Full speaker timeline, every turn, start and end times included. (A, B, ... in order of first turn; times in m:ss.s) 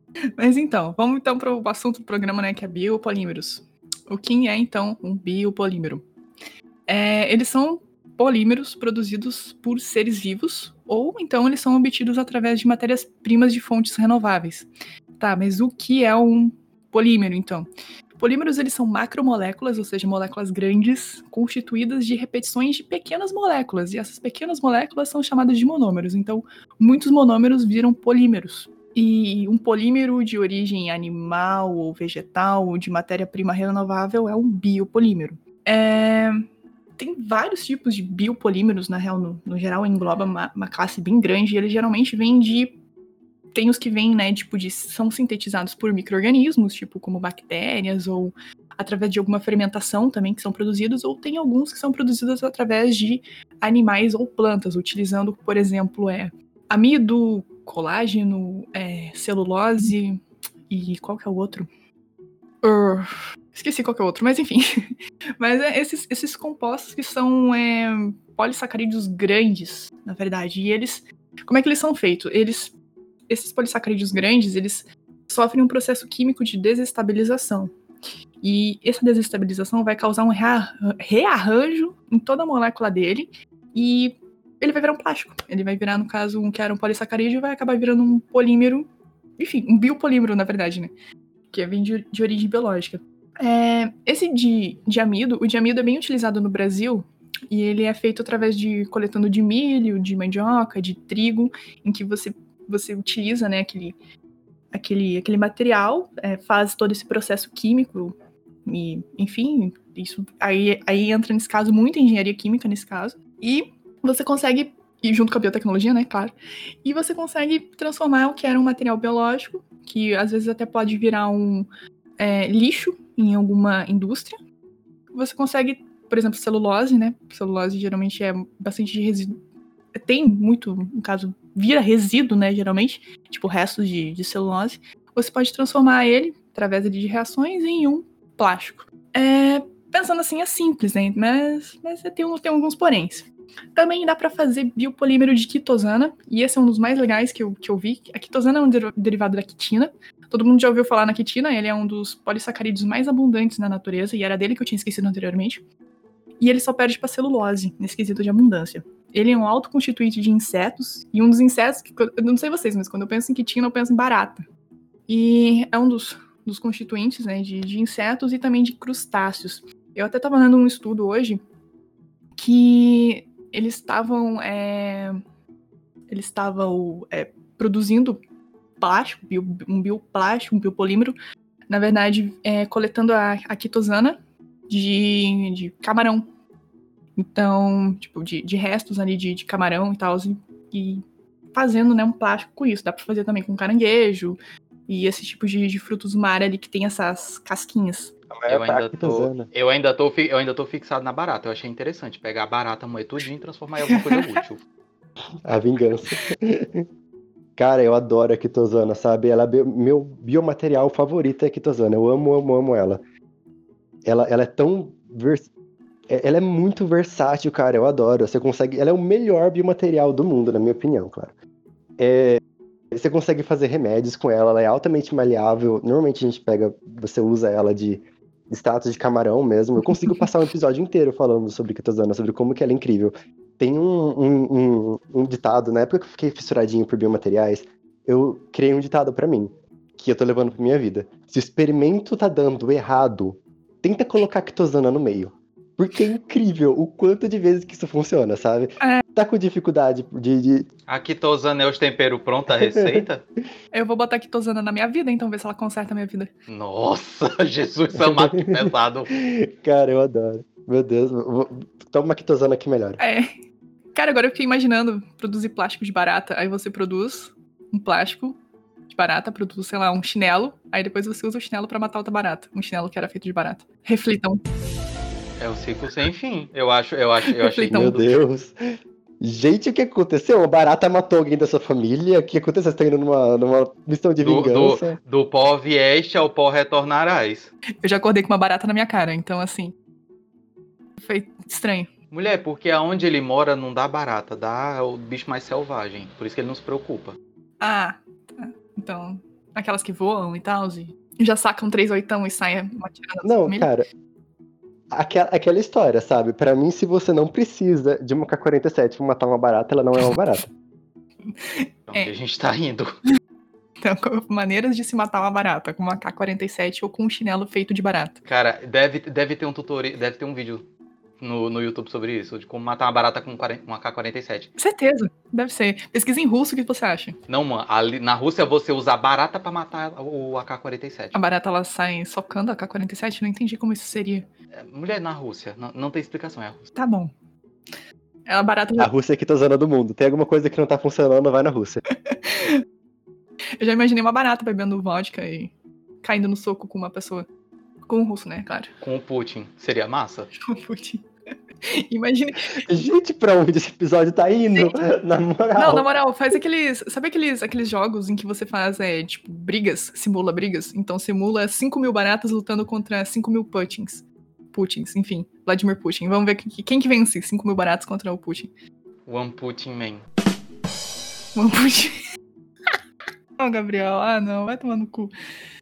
0:00.4-0:06.0 A
0:06.9-0:36.4 A
0:37.0-0:42.8 A
0:43.5-1:01.7 A
1:02.6-1:12.7 A
1:13.3-1:17.8 A
1:18.4-1:30.9 A
1:31.5-1:44.0 A
1:44.7-1:48.2 A
1:48.7-1:56.3 A
1:56.8-2:04.4 A
2:05.1-2:09.4 A
2:10.0-2:35.6 A
2:36.4-2:44.5 A
2:45.1-2:51.4 A
2:52.4-2:55.2 A
2:56.1-2:58.2 A
2:58.8-3:01.2 A
3:01.7-3:04.2 A
3:04.7-3:06.3 A
3:07.2-3:11.0 A
3:11.5-3:18.1 A
3:18.3-3:19.5 B
3:18.5-3:24.6 C
3:23.9-3:24.3 A
3:25.4-3:26.9 B
3:27.6-3:33.0 B
3:34.0-3:35.5 B
3:36.1-3:41.3 B
3:42.0-3:42.4 B
3:42.9-4:10.7 B
3:49.9-3:50.2 A
4:10.9-4:13.2 C
4:12.5-4:13.1 B
4:13.7-4:16.3 A
4:16.5-4:19.1 C
4:18.0-4:23.0 B
4:23.0-4:23.4 A
4:24.0-4:28.4 A
4:28.9-4:34.4 A
4:35.4-4:38.2 C
4:37.3-4:38.0 A
4:37.7-4:38.6 B
4:39.2-4:45.0 B
4:44.2-4:47.5 C
4:47.8-4:49.7 A
4:51.0-4:51.9 A
4:52.1-4:57.2 C
4:57.6-5:03.7 A
5:03.2-5:03.9 B
5:04.9-5:10.5 B
5:11.3-5:12.1 A
5:11.9-5:13.0 C
5:13.8-5:18.2 A
5:18.3-5:20.6 C
5:21.2-5:24.5 C
5:24.6-5:27.2 A
5:27.3-5:31.2 C
5:31.1-5:34.2 A
5:34.6-5:36.7 C
5:36.8-5:37.1 A
5:38.3-5:38.9 A
5:38.8-5:41.8 B
5:42.1-5:42.6 A
5:43.6-5:47.3 A
5:47.9-5:48.7 A
5:48.8-5:50.3 C
5:50.5-5:51.1 A
5:51.6-5:52.7 A
5:52.6-5:55.9 B
5:55.6-6:08.5 A
6:09.1-6:10.0 C
6:11.4-6:12.0 A
6:13.4-6:15.1 A